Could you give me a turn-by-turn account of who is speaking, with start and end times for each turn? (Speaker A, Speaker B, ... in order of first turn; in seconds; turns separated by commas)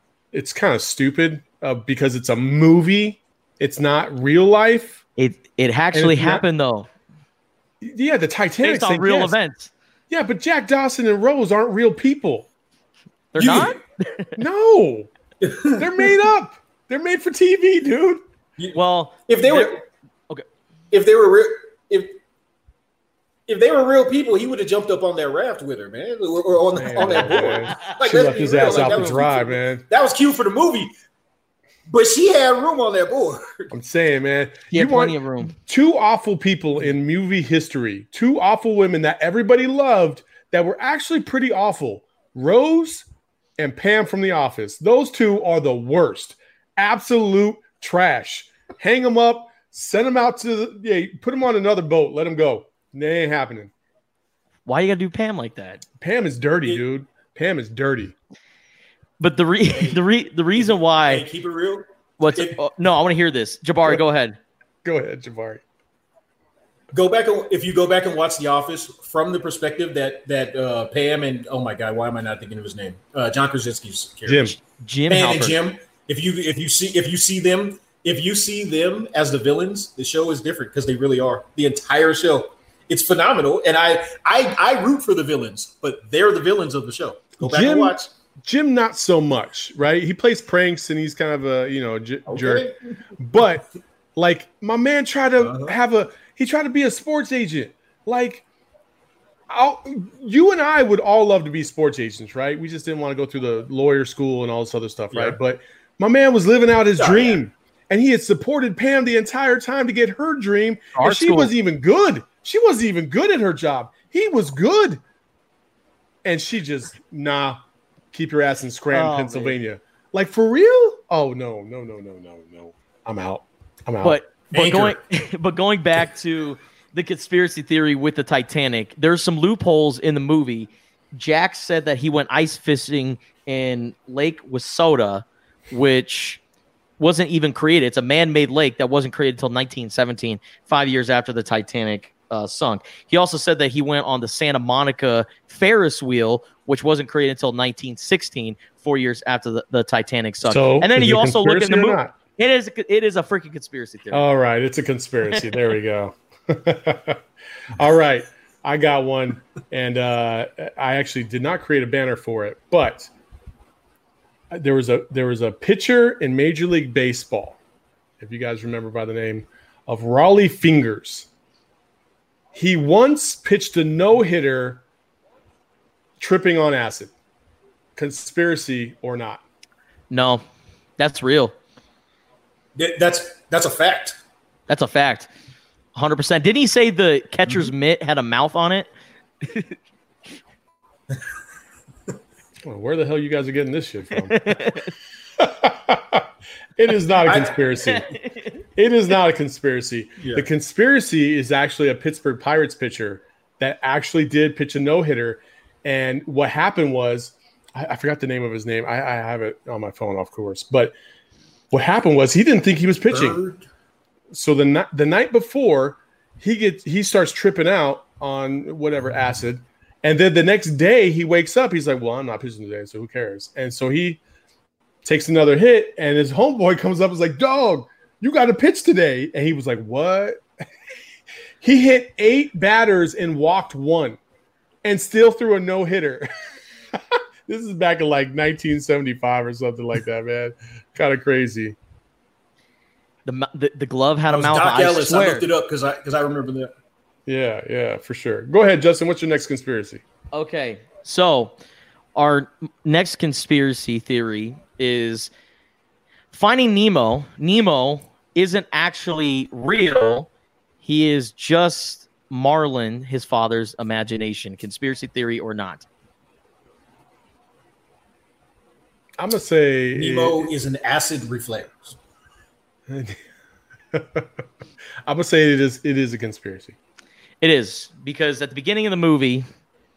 Speaker A: 0.3-5.0, Speaker B: 5.2-6.9, Speaker A: 5.9-6.4, Speaker A: 7.8-9.3, Speaker B: 8.6-9.7, Speaker A: 10.1-12.5, Speaker B: 13.3-14.3, Speaker C: 13.4-13.8, Speaker A: 14.4-15.1, Speaker C: 15.4-15.8, Speaker A: 15.7-18.2, Speaker C: 18.6-19.8, Speaker B: 18.7-20.4, Speaker C: 20.9-22.2, Speaker C: 23.5-30.9, Speaker A: 26.8-29.8, Speaker B: 27.0-29.1, Speaker C: 31.9-33.7, Speaker A: 33.7-43.0, Speaker B: 34.7-35.5, Speaker A: 43.6-53.7, Speaker B: 54.7-55.8, Speaker A: 56.0-58.1, Speaker B: 59.2-61.2, Speaker C: 60.6-62.6, Speaker B: 62.2-64.4, Speaker A: 64.8-65.6, Speaker C: 66.9-74.5, Speaker A: 74.3-74.6, Speaker B: 74.8-75.6, Speaker C: 75.1-88.1, Speaker A: 87.4-98.4, Speaker C: 92.3-92.8, Speaker C: 95.4-95.8, Speaker A: 99.5-115.0, Speaker C: 105.1-105.4, Speaker C: 107.0-107.4, Speaker B: 111.0-111.5, Speaker A: 116.2-117.6, Speaker A: 118.1-124.2, Speaker B: 118.9-119.6, Speaker B: 124.0-136.4, Speaker C: 124.5-125.0, Speaker B: 137.0-154.2, Speaker A: 150.4-152.1, Speaker A: 154.1-157.2, Speaker A: 157.7-163.1, Speaker A: 164.5-167.6, Speaker A: 168.2-171.3, Speaker A: 172.5-174.8, Speaker A: 176.2-177.1, Speaker A: 177.9-179.4, Speaker B: 180.1-180.4, Speaker B: 181.0-181.5, Speaker C: 182.8-184.2, Speaker B: 184.7-185.3, Speaker B: 185.9-188.9, Speaker B: 189.4-189.7, Speaker A: 192.6-194.7, Speaker B: 194.3-194.9, Speaker A: 195.4-196.3, Speaker A: 196.8-198.1, Speaker C: 197.2-197.6, Speaker A: 198.8-210.9, Speaker C: 200.2-200.4, Speaker A: 211.7-213.4, Speaker C: 213.1-213.6, Speaker A: 214.3-224.2, Speaker A: 225.0-230.4, Speaker A: 231.6-234.2, Speaker A: 234.8-236.3, Speaker A: 237.0-241.8, Speaker B: 243.2-245.5, Speaker C: 244.3-246.7, Speaker A: 247.3-250.0, Speaker B: 250.3-251.5, Speaker B: 252.2-255.3, Speaker B: 256.3-260.3, Speaker B: 260.8-265.9, Speaker A: 269.2-270.5, Speaker C: 269.9-272.0, Speaker A: 272.9-273.2, Speaker A: 273.9-274.2, Speaker A: 275.1-276.8, Speaker B: 277.4-279.4